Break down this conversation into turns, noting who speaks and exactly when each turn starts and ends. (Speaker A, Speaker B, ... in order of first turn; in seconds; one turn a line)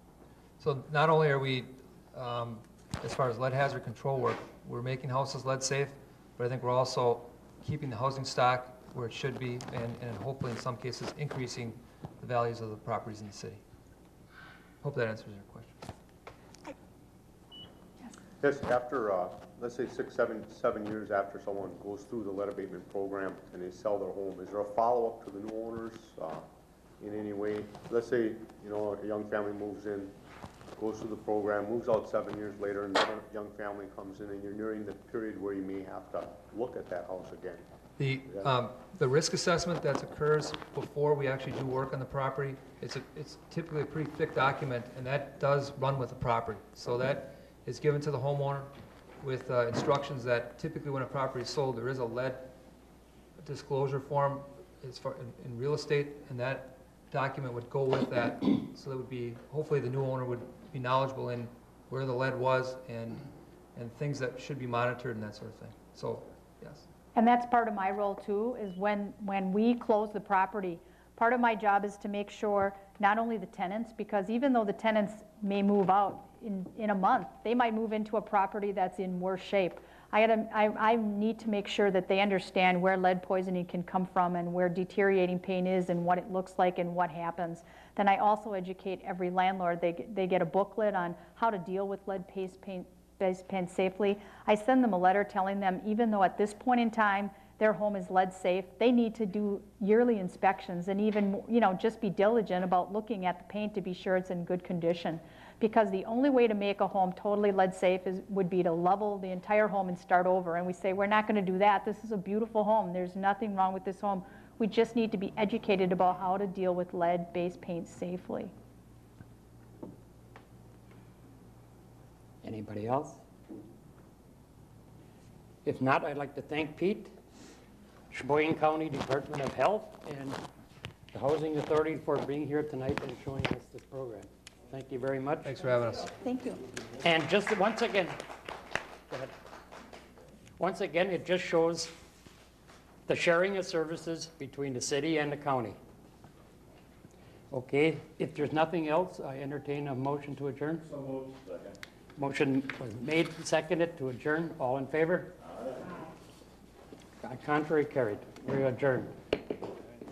Speaker A: 0.6-13.6
Speaker A: 14.8-15.8
Speaker B: 18.4-26.5
Speaker B: 27.0-30.1
Speaker B: 30.8-37.6
Speaker A: 38.0-52.5
Speaker A: 53.4-66.9
Speaker C: 67.2-118.5
Speaker D: 122.4-123.2
Speaker D: 125.7-127.1
Speaker D: 128.1-130.4
Speaker D: 131.1-135.5
Speaker A: 135.4-136.2
Speaker C: 136.3-136.6
Speaker D: 137.0-138.2
Speaker D: 140.6-141.9
Speaker D: 143.1-145.8
Speaker D: 147.5-150.9
Speaker D: 152.2-155.3
Speaker D: 157.2-159.1